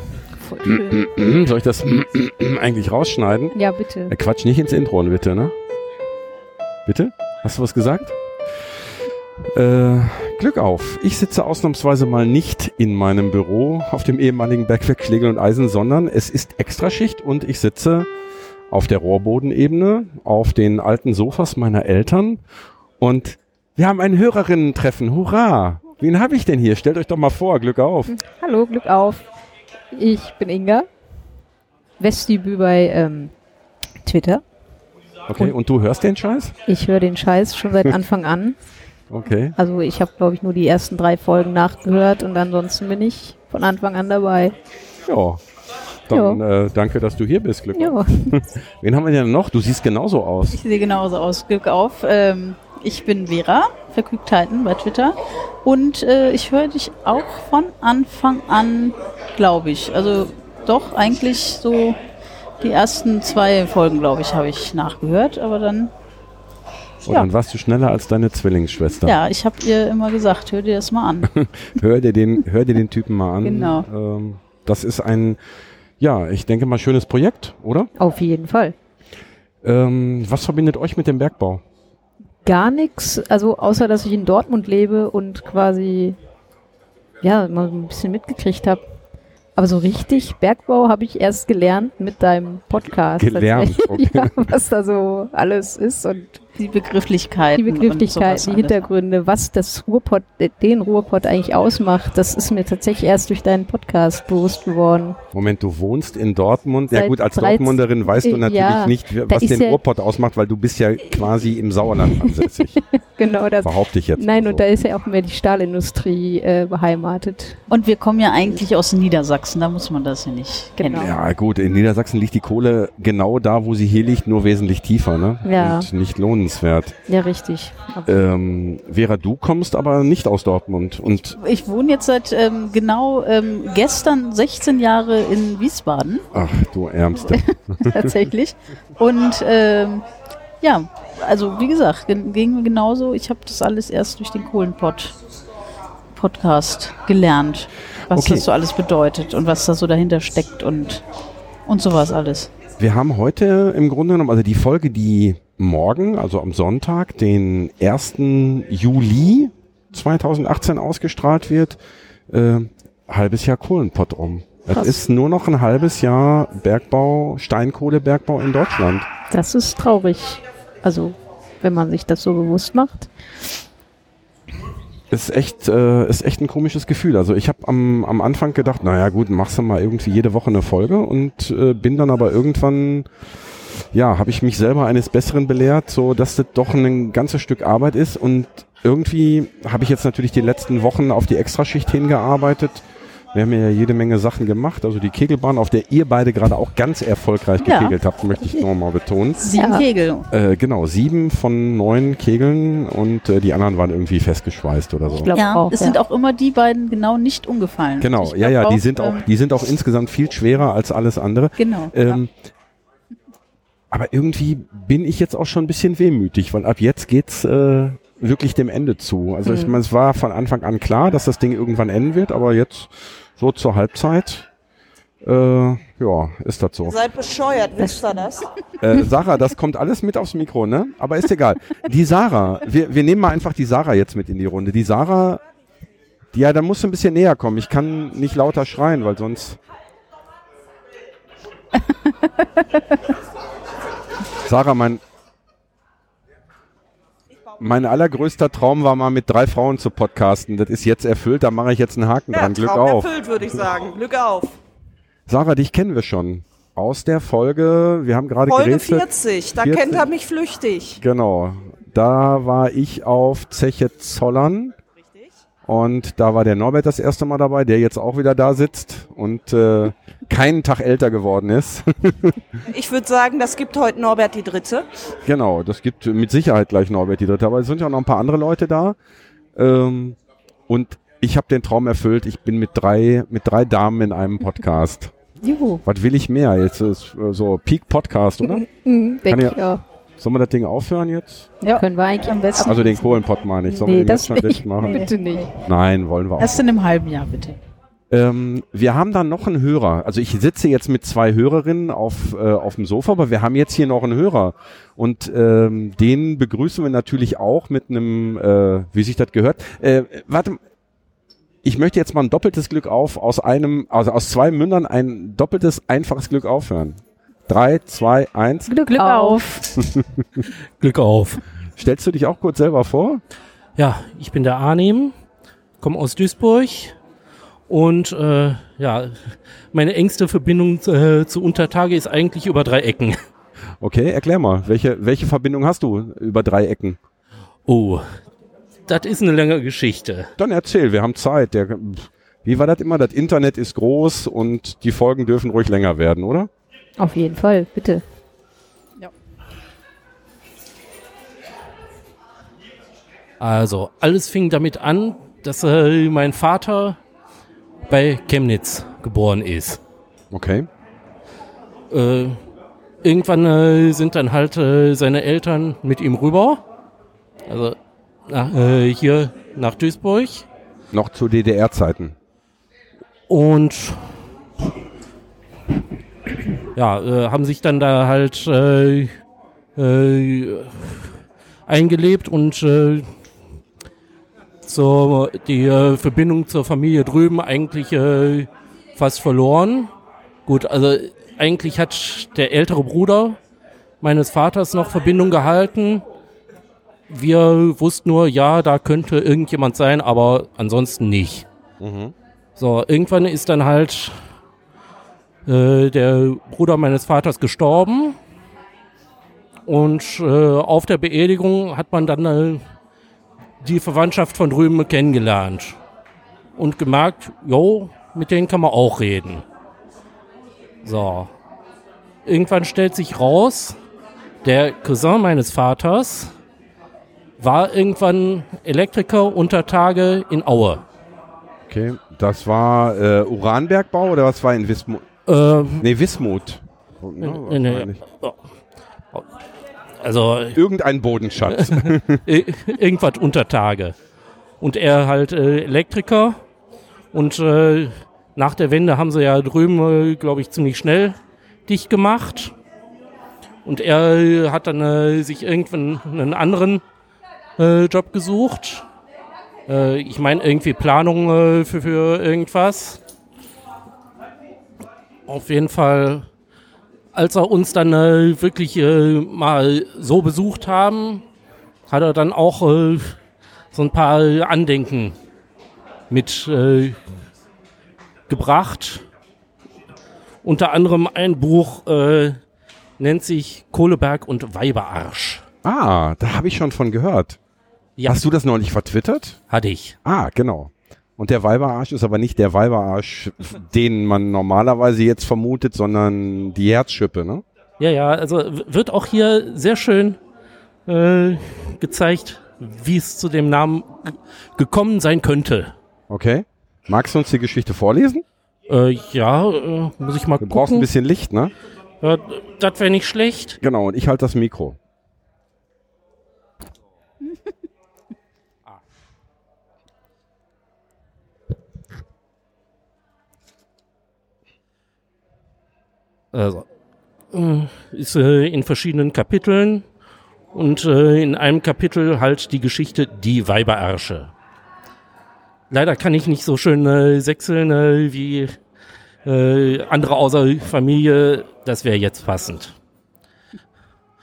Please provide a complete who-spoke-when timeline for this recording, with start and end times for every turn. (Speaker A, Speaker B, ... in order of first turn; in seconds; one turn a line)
Speaker A: 0.4-1.0
Speaker B: 0.7-3.6
Speaker A: 3.5-4.2
Speaker B: 4.1-5.5
Speaker B: 6.9-8.2
Speaker B: 9.5-18.1
Speaker B: 18.7-22.4
Speaker B: 23.0-28.1
Speaker A: 28.1-29.2
Speaker A: 29.9-30.9
Speaker A: 32.0-33.3
Speaker A: 34.0-34.4
Speaker B: 35.3-36.5
Speaker A: 36.7-38.6
Speaker B: 39.1-39.6
Speaker A: 39.6-44.5
Speaker B: 45.1-45.4
Speaker B: 46.1-50.6
Speaker A: 46.1-46.4
Speaker A: 47.8-48.4
Speaker C: 50.5-62.0
Speaker C: 62.6-65.9
Speaker B: 67.1-69.2
Speaker C: 69.0-71.3
Speaker B: 71.4-75.4
Speaker C: 73.4-73.9
Speaker B: 76.0-77.9
Speaker A: 78.0-78.8
Speaker B: 79.6-81.6
Speaker A: 82.5-86.2
Speaker A: 87.2-88.8
Speaker A: 89.6-96.4
Speaker B: 93.2-94.5
Speaker C: 96.6-98.9
Speaker A: 97.5-105.2
Speaker B: 105.3-112.8
Speaker A: 106.9-109.8
Speaker A: 112.9-117.6
Speaker B: 113.6-114.6
Speaker C: 117.7-121.1
Speaker A: 120.8-121.1
Speaker B: 120.9-127.0
Speaker A: 125.5-125.9
Speaker A: 127.1-128.2
Speaker B: 128.1-131.4
Speaker C: 131.4-136.2
Speaker B: 136.3-138.1
Speaker C: 137.2-140.1
Speaker C: 140.6-145.1
Speaker C: 146.2-151.1
Speaker B: 148.1-148.5
Speaker C: 151.7-152.5
Speaker B: 152.8-169.1
Speaker A: 169.3-173.1
Speaker B: 175.1-183.2
Speaker B: 183.9-199.4
Speaker C: 197.6-198.0
Speaker C: 199.4-200.3
Speaker A: 199.5-199.9
Speaker B: 200.3-205.3
Speaker A: 205.2-206.0
Speaker C: 205.3-209.3
Speaker B: 208.0-212.3
Speaker C: 211.6-212.2
Speaker B: 213.9-224.5
Speaker A: 219.4-219.8
Speaker B: 225.2-227.0
Speaker D: 226.9-228.6
Speaker A: 227.8-228.1
Speaker B: 228.8-235.4
Speaker B: 236.3-239.6
Speaker B: 244.4-245.0
Speaker B: 247.6-253.1
Speaker D: 252.3-254.6
Speaker B: 255.3-260.1
Speaker D: 258.5-261.0
Speaker B: 261.0-264.8
Speaker B: 265.7-272.4
Speaker D: 272.7-274.9
Speaker B: 275.3-279.0
Speaker B: 279.6-280.2
Speaker B: 280.7-285.1
Speaker A: 285.4-285.8
Speaker B: 285.9-288.6
Speaker A: 288.4-289.8
Speaker B: 289.3-289.6
Speaker B: 290.2-291.5
Speaker C: 291.6-293.2
Speaker A: 291.8-292.8
Speaker B: 292.6-295.1
Speaker A: 293.7-295.5
Speaker C: 294.8-295.5
Speaker B: 295.6-296.6
Speaker C: 296.4-297.6
Speaker B: 298.1-310.6
Speaker B: 311.6-318.7
Speaker A: 318.7-319.4
Speaker C: 319.0-319.7
Speaker B: 319.8-320.4
Speaker E: 320.8-321.4
Speaker B: 321.8-323.2
Speaker E: 323.8-325.1
Speaker E: 325.8-326.9
Speaker E: 327.7-333.2
Speaker B: 333.8-337.0
Speaker E: 337.7-338.1
Speaker E: 338.9-340.3
Speaker B: 340.4-346.5
Speaker A: 347.0-348.0
Speaker E: 353.4-357.0
Speaker E: 357.9-359.8
Speaker B: 360.3-360.7
Speaker E: 361.9-362.4
Speaker E: 363.0-366.6
Speaker E: 367.5-367.8
Speaker E: 368.3-370.5
Speaker B: 370.9-372.1
Speaker E: 373.3-374.2
Speaker E: 376.7-379.1
Speaker E: 379.8-381.1
Speaker E: 381.7-383.1
Speaker E: 384.7-389.9
Speaker E: 390.5-393.4
Speaker E: 394.0-396.0
Speaker E: 397.1-401.5
Speaker B: 401.8-402.1
Speaker E: 402.6-404.2
Speaker E: 405.5-408.2
Speaker E: 409.7-412.6
Speaker E: 413.6-415.8
Speaker E: 416.6-419.5
Speaker E: 420.8-421.3
Speaker E: 422.2-423.8
Speaker E: 424.4-426.3
Speaker E: 427.4-430.8
Speaker B: 431.7-435.1
Speaker E: 435.3-435.9
Speaker B: 435.8-438.0
Speaker E: 437.2-438.4
Speaker E: 440.0-440.6
Speaker B: 440.6-442.2
Speaker E: 441.6-443.9
Speaker E: 444.6-446.4
Speaker E: 447.1-452.5
Speaker E: 453.6-456.8
Speaker E: 457.6-458.9
Speaker E: 459.7-463.0
Speaker E: 465.3-466.3
Speaker E: 467.1-471.2
Speaker E: 471.9-473.2
Speaker E: 473.7-475.2
Speaker E: 476.1-477.0
Speaker E: 478.3-479.1
Speaker E: 480.4-482.4
Speaker E: 483.0-485.4
Speaker B: 485.6-487.4
Speaker B: 488.1-489.4
Speaker E: 489.5-490.0
Speaker B: 490.1-497.4
Speaker E: 497.8-500.2
Speaker E: 500.9-505.7
Speaker B: 506.1-508.2
Speaker E: 508.7-510.9
Speaker B: 510.4-511.5
Speaker E: 512.0-513.6
Speaker B: 513.6-514.8
Speaker E: 526.3-526.7
Speaker E: 527.3-529.9
Speaker E: 530.5-534.3
Speaker E: 535.7-538.6
Speaker E: 539.2-542.8